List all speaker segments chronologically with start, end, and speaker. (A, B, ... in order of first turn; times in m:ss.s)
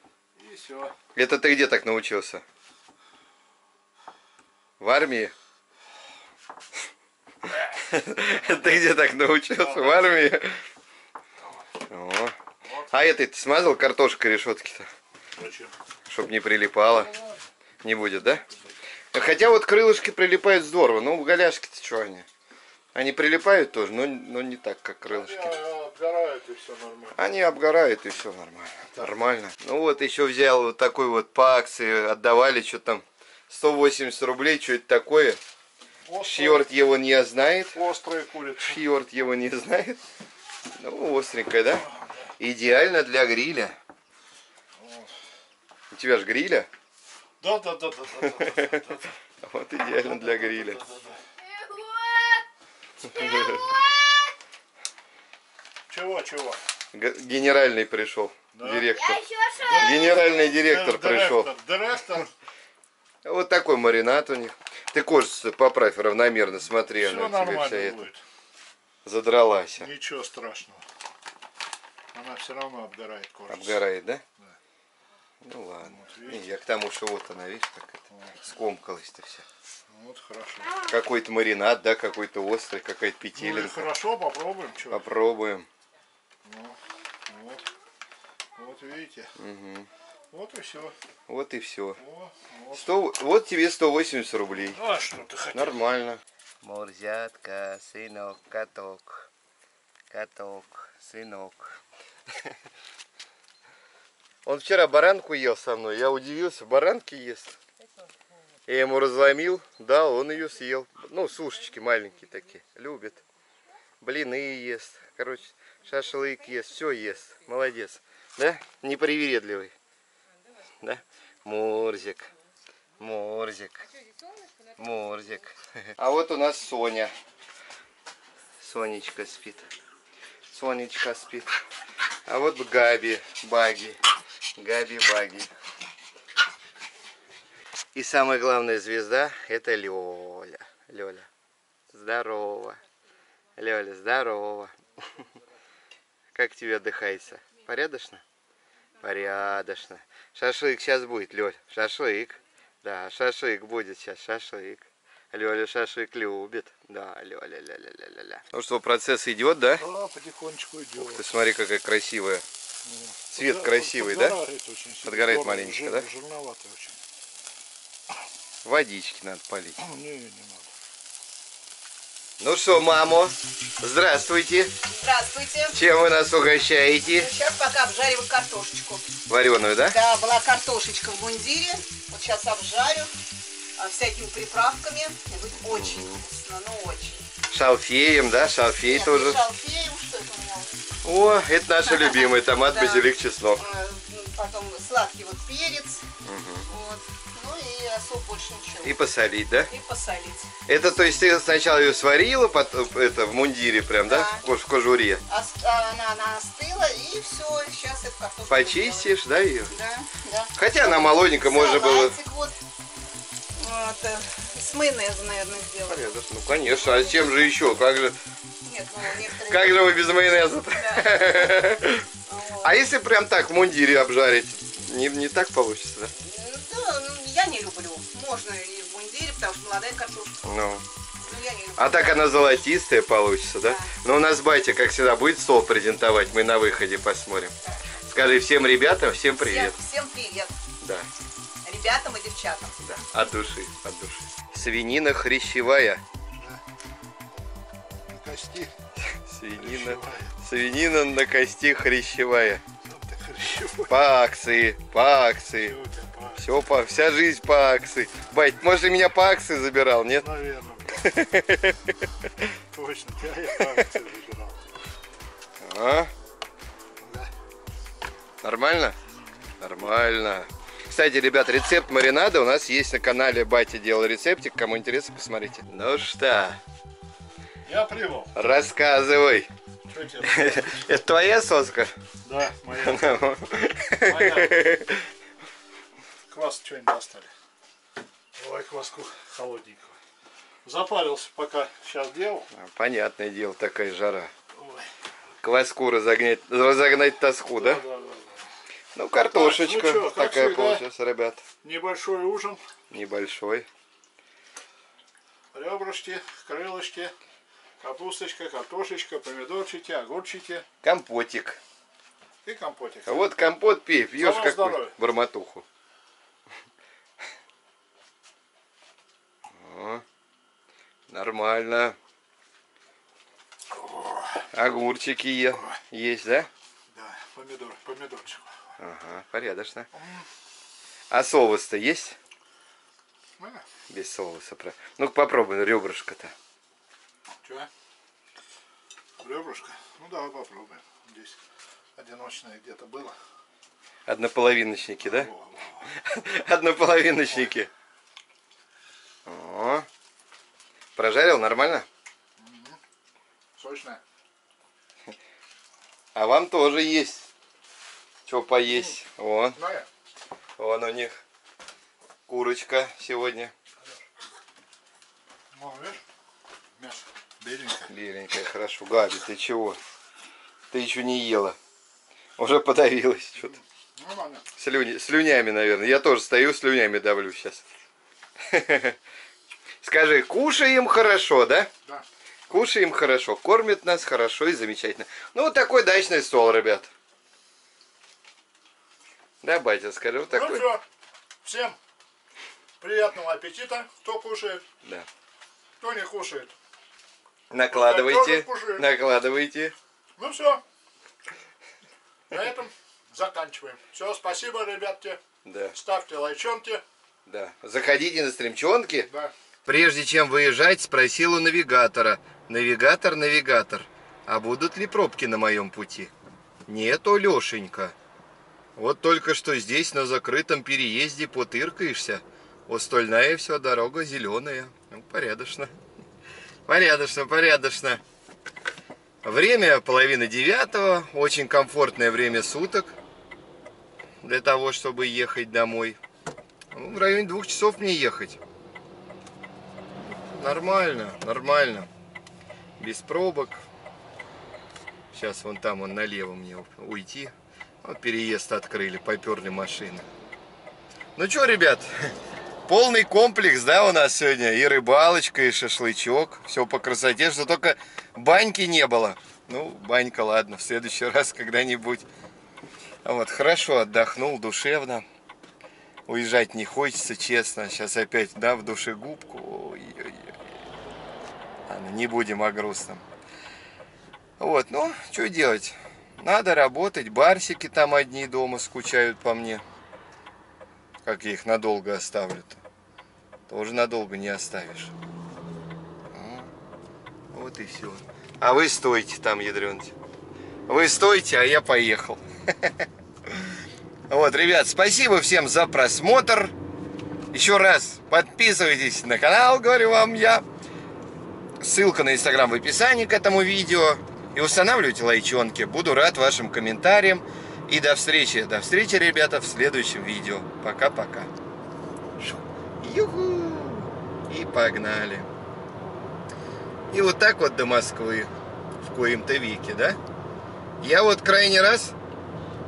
0:00.4-0:01.0 A
0:01.1-0:02.4 B
0:04.8-0:05.3 B
0:07.7-0:10.6 B
0:09.6-0:10.3 A
0:11.9-0:12.3 B
0:12.9-0:14.9 B
0:15.4-0:15.7 A
0:16.1-0:17.2 B
0:17.0-0:17.4 A
0:17.8-0:18.4 B
0:19.1-0:22.3 B
0:22.9-0:25.5 B
0:25.0-0:27.2 A
0:27.2-0:35.4 B
0:36.0-0:36.7 A
0:36.2-0:37.8 B
0:37.7-0:38.8 A
0:38.6-0:40.0 B
0:40.7-0:41.9 B
0:42.4-0:43.8 B
0:44.8-0:45.2 A
0:45.9-0:46.7 B
0:47.4-0:49.1 A
0:48.5-0:48.8 B
0:49.4-0:50.8 B
0:49.9-0:51.2 A
0:51.5-0:52.4 C
0:53.1-0:54.3 C
0:53.1-0:53.8 B
0:55.9-0:56.6 A
0:56.9-0:59.2 B
0:58.5-0:58.9 A
0:59.0-1:00.3 C
0:59.6-1:02.3 A
0:59.8-1:01.5 B
1:03.2-1:08.0 B
1:07.0-1:08.2 A
1:09.0-1:09.9 B
1:09.8-1:10.8 A
1:12.1-1:13.8 A
1:13.5-1:14.2 B
1:15.4-1:19.4 B
1:15.8-1:16.5 A
1:18.1-1:18.4 A
1:19.9-1:20.8 A
1:20.9-1:23.9 B
1:23.3-1:25.0 A
1:24.9-1:25.7 B
1:26.4-1:27.7 A
1:28.6-1:29.3 A
1:29.4-1:29.9 B
1:30.3-1:31.0 A
1:31.3-1:32.0 B
1:32.0-1:33.0 A
1:32.7-1:34.8 B
1:34.7-1:35.8 A
1:35.5-1:39.3 B
1:40.1-1:41.8 B
1:44.4-1:47.6 B
1:48.7-1:53.2 B
1:54.0-1:59.7 B
2:00.8-2:02.3 B
2:03.0-2:03.9 B
2:04.8-2:07.1 B
2:08.6-2:09.7 B
2:10.5-2:11.5 B
2:12.2-2:14.0 B
2:14.6-2:15.5 B
2:17.9-2:21.3 B
2:21.9-2:22.8 B
2:23.6-2:24.7 B
2:26.3-2:28.2 B
2:29.0-2:39.9 B
2:39.8-2:41.3 A
2:41.0-2:42.4 B
2:42.9-2:47.0 A
2:43.3-2:44.4 B
2:45.0-2:46.1 B
2:48.6-2:49.8 B
2:49.8-2:50.7 A
2:52.4-2:54.7 B
2:54.9-2:55.8 C
2:55.7-2:57.3 B
2:57.1-2:59.1 C
2:59.3-3:00.0 B
2:59.9-3:03.1 C
3:03.8-3:07.3 C
3:05.6-3:06.2 B
3:07.5-3:09.4 B
3:08.8-3:10.8 C
3:11.0-3:13.6 B
3:11.8-3:16.0 C
3:16.2-3:16.6 B
3:16.7-3:19.0 C
3:18.8-3:19.7 B
3:19.7-3:20.5 C
3:20.6-3:25.2 B
3:24.0-3:24.4 C
3:25.3-3:29.1 C
3:28.5-3:29.7 B
3:29.7-3:32.6 C
3:30.6-3:32.2 B
3:33.6-3:36.1 C
3:35.9-3:38.2 B
3:36.6-3:37.4 C
3:38.6-3:42.8 C
3:39.4-3:42.0 B
3:42.6-3:46.1 B
3:46.2-3:50.4 C
3:50.4-3:50.8 B
3:51.2-3:52.5 C
3:51.8-3:57.5 B
3:53.6-3:53.9 C
3:58.0-3:59.8 B
3:59.4-4:00.6 C
4:00.8-4:01.1 B
4:01.6-4:03.3 C
4:02.8-4:06.0 B
4:06.3-4:06.6 A
4:08.1-4:08.7 A
4:09.1-4:12.6 B
4:09.6-4:10.3 A
4:12.8-4:14.0 A
4:13.9-4:15.8 B
4:15.5-4:16.5 A
4:16.4-4:20.3 B
4:20.2-4:21.1 A
4:20.9-4:22.0 B
4:22.7-4:24.6 A
4:25.6-4:26.1 B
4:27.0-4:27.3 A
4:28.4-4:29.0 B
4:29.1-4:29.5 A
4:29.6-4:36.6 B
4:37.6-4:38.3 A
4:38.3-4:39.5 B
4:39.8-4:40.9 A
4:40.2-4:41.9 B
4:42.2-4:43.2 A
4:42.8-4:45.0 B
4:44.0-4:44.7 A
4:46.3-4:47.3 A
4:48.4-4:50.0 A
4:50.6-4:52.5 A
4:52.5-4:54.3 B
4:54.5-4:54.9 A
4:55.4-4:57.8 B
4:57.6-4:58.4 A
4:58.9-5:01.4 B
4:59.2-5:00.8 A
5:01.6-5:02.6 A
5:02.9-5:03.7 B
5:05.5-5:07.1 A
5:07.8-5:10.7 A
5:10.8-5:11.6 B
5:12.4-5:13.2 A
5:13.0-5:15.6 B
5:14.2-5:15.0 A
5:19.5-5:20.0 B
5:21.1-5:22.0 B
5:23.7-5:24.5 A
5:24.5-5:26.5 B
5:26.9-5:28.6 A
5:28.8-5:29.9 B
5:29.9-5:30.3 A
5:31.1-5:32.2 B
5:33.4-5:33.6 A
5:33.9-5:36.3 B
5:37.4-5:37.7 A
5:39.2-5:41.4 A
5:42.0-5:43.2 A
5:44.1-5:45.3 B
5:45.0-5:45.9 A
5:45.9-5:47.7 B
5:49.2-5:49.9 B
5:51.0-5:51.9 B
5:52.4-5:52.8 A
5:53.6-5:54.0 A
5:56.1-5:57.3 B
5:58.3-5:59.6 B
5:59.6-5:59.9 A
6:00.6-6:01.2 B
6:02.3-6:03.5 B
6:05.5-6:06.0 A
6:06.8-6:07.9 A
6:07.9-6:09.8 B
6:10.7-6:11.6 B
6:12.4-6:13.6 B
6:13.4-6:14.4 A
6:14.6-6:17.6 B
6:18.4-6:19.0 B
6:19.8-6:21.7 B
6:22.5-6:26.9 B
6:29.4-6:30.8 B
6:30.3-6:30.8 A
6:31.4-6:31.8 A
6:32.8-6:34.6 A
6:35.8-6:36.5 A
6:37.5-6:39.7 B
6:37.7-6:38.9 A
6:40.2-6:40.6 A
6:42.3-6:45.2 A
6:45.4-6:45.8 B
6:45.7-6:46.8 A
6:47.2-6:49.1 B
6:49.0-6:49.3 A
6:49.6-6:56.1 B
6:56.7-6:57.9 B
6:58.8-7:05.7 B
7:06.6-7:08.0 B
7:09.2-7:13.0 B
7:14.2-7:16.0 B
7:16.7-7:18.4 B
7:20.0-7:21.9 B
7:22.8-7:23.6 B
7:25.1-7:30.1 B
7:31.2-7:32.1 B
7:32.7-7:42.0 B
7:43.0-7:45.0 B
7:46.1-7:50.3 B
7:51.7-7:53.0 B
7:54.4-7:59.6 B
8:01.0-8:02.6 B
8:03.5-8:04.9 B
8:06.1-8:06.5 B
8:07.3-8:09.9 B
8:10.7-8:13.5 B
8:14.1-8:16.5 B
8:17.3-8:20.4 B
8:21.6-8:31.3 B
8:32.2-8:35.3 B
8:36.9-8:38.3 B
8:38.8-8:40.0 B
8:40.8-8:41.9 B